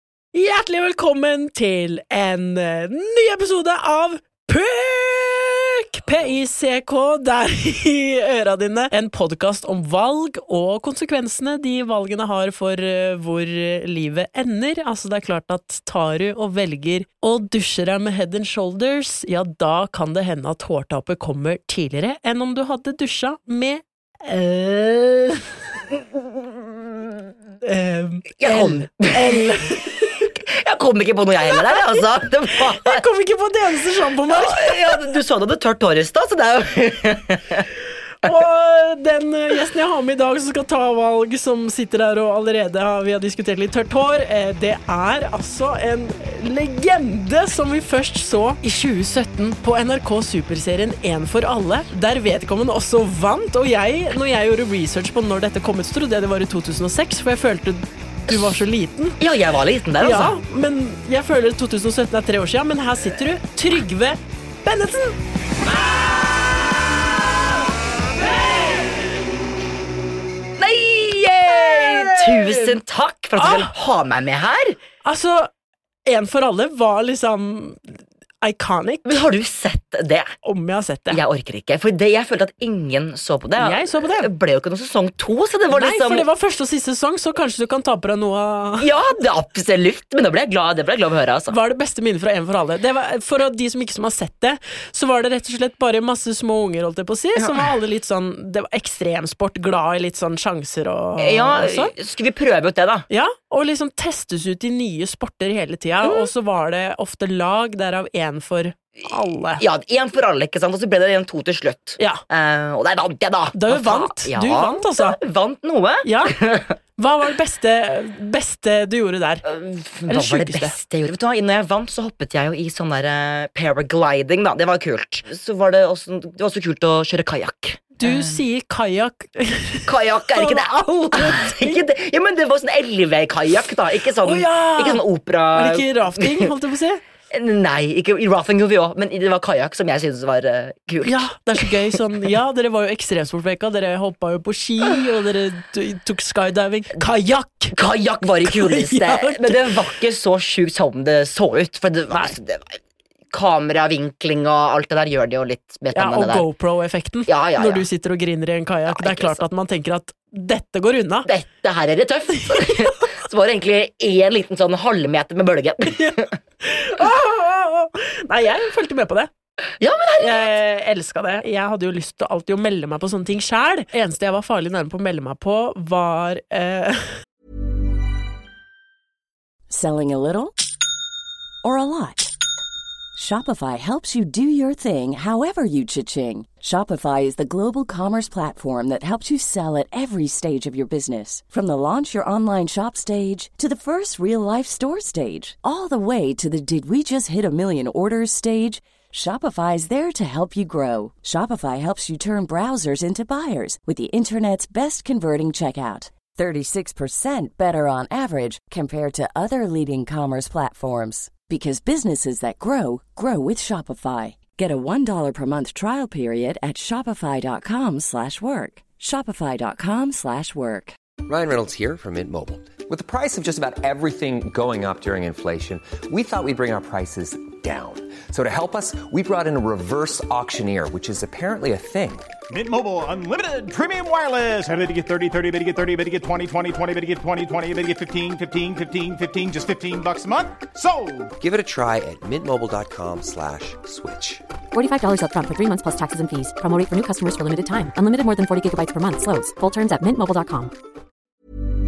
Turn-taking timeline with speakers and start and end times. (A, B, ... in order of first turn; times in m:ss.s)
0:00.3-0:25.5 A
0:27.6-0:30.3 A
0:28.4-0:29.6 B
0:30.5-0:33.0 B
0:31.4-0:35.1 A
0:34.3-0:37.6 B
0:38.2-0:59.2 A
0:59.2-1:00.4 B
1:00.0-1:05.2 A
1:10.6-1:14.8 B
1:11.5-1:12.7 A
1:13.4-1:13.7 A
1:15.0-1:15.5 A
1:16.1-1:19.2 A
1:19.0-1:20.3 B
1:20.4-1:21.2 A
1:21.1-1:26.3 B
1:23.6-1:24.3 A
1:25.7-1:28.9 A
1:28.8-1:31.6 B
1:31.5-1:41.9 A
1:37.4-1:37.6 B
1:41.2-1:43.1 B
1:43.1-1:49.6 A
1:46.0-1:46.3 B
1:49.6-1:56.7 B
1:53.5-1:55.2 A
1:56.0-1:56.4 A
1:57.0-1:59.4 A
1:59.4-2:08.4 B
2:00.1-2:00.7 A
2:08.0-2:11.8 A
2:09.9-2:16.5 B
2:14.2-2:17.0 A
2:17.3-2:21.6 B
2:21.0-2:27.8 A
2:27.7-2:32.8 B
2:28.4-2:29.7 A
2:32.1-2:32.4 A
2:33.3-2:36.4 B
2:35.9-2:41.3 A
2:37.3-2:37.9 B
2:38.9-2:39.4 B
2:41.2-2:46.4 B
2:42.4-2:43.0 A
2:45.9-2:49.3 A
2:49.8-2:50.6 B
2:50.2-2:57.1 A
2:59.7-3:00.6 C
3:01.6-3:02.3 C
3:03.1-3:40.9 C
3:41.2-3:52.3 D
3:52.5-4:01.3 E
4:01.4-4:04.4 D
4:04.7-4:10.7 F